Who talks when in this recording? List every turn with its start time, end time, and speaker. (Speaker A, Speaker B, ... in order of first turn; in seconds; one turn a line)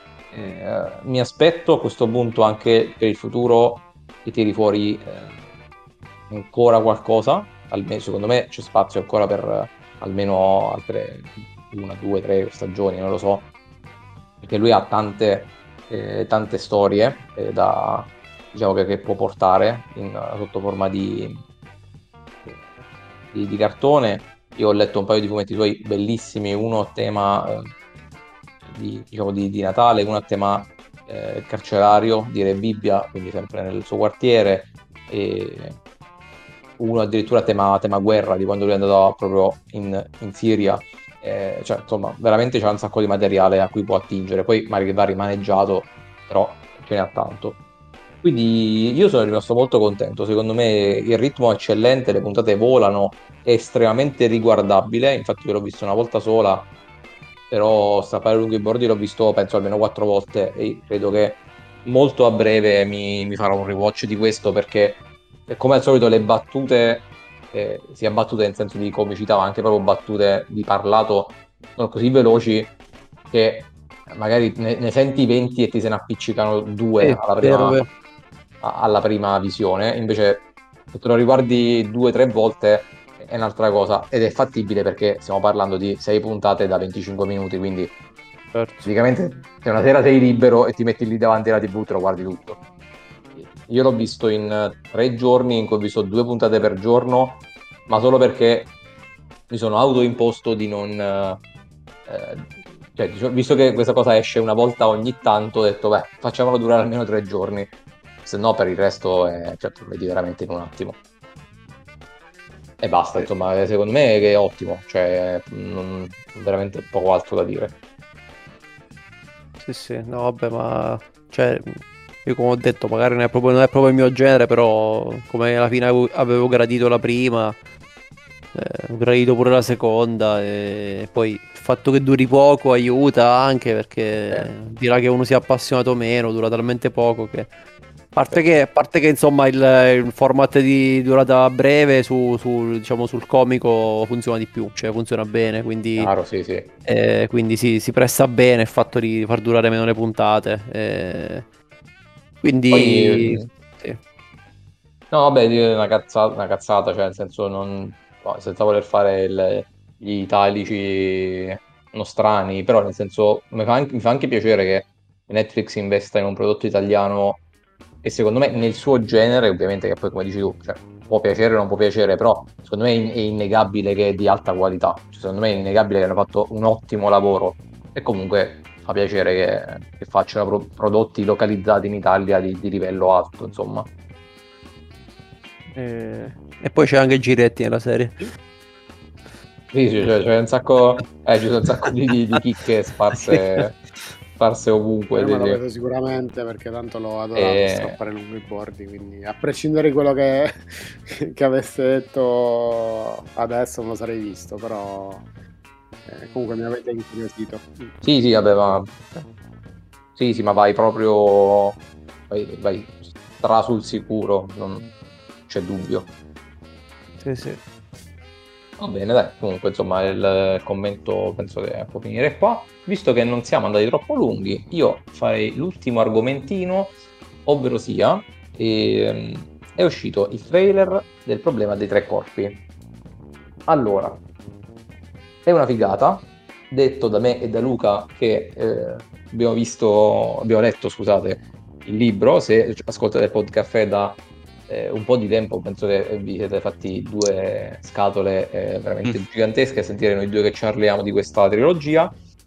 Speaker A: 0.3-5.4
Speaker A: 6.3-13.5
Speaker A: 14.4-21.4
Speaker A: 23.3-27.7
Speaker A: 28.7-35.8
Speaker A: 36.8-47.6
Speaker A: 48.2-56.7
Speaker A: 57.5-72.8
Speaker A: 73.3-77.8
Speaker B: 77.0-77.9
Speaker A: 78.6-87.9
Speaker B: 88.5-88.9
Speaker A: 88.8-92.6
Speaker A: 93.4-98.7
Speaker A: 99.5-101.4
Speaker A: 102.1-107.7
Speaker A: 108.2-111.0
Speaker A: 112.8-117.8
Speaker B: 119.6-127.6
Speaker B: 128.5-137.5
Speaker B: 138.1-146.1
Speaker A: 146.0-146.7
Speaker B: 146.9-151.4
Speaker B: 152.4-154.0
Speaker A: 152.7-153.5
Speaker A: 155.1-167.4
Speaker A: 168.0-183.9
Speaker B: 185.7-188.3
Speaker A: 189.7-193.8
Speaker B: 193.1-193.7
Speaker A: 194.4-195.6
Speaker C: 195.1-205.3
Speaker A: 197.3-198.0
Speaker C: 206.1-207.9
Speaker A: 208.0-209.3
Speaker A: 210.2-214.9
Speaker A: 215.5-216.1
Speaker B: 217.2-217.6
Speaker A: 218.8-232.6
Speaker A: 233.7-234.2
Speaker A: 235.5-252.1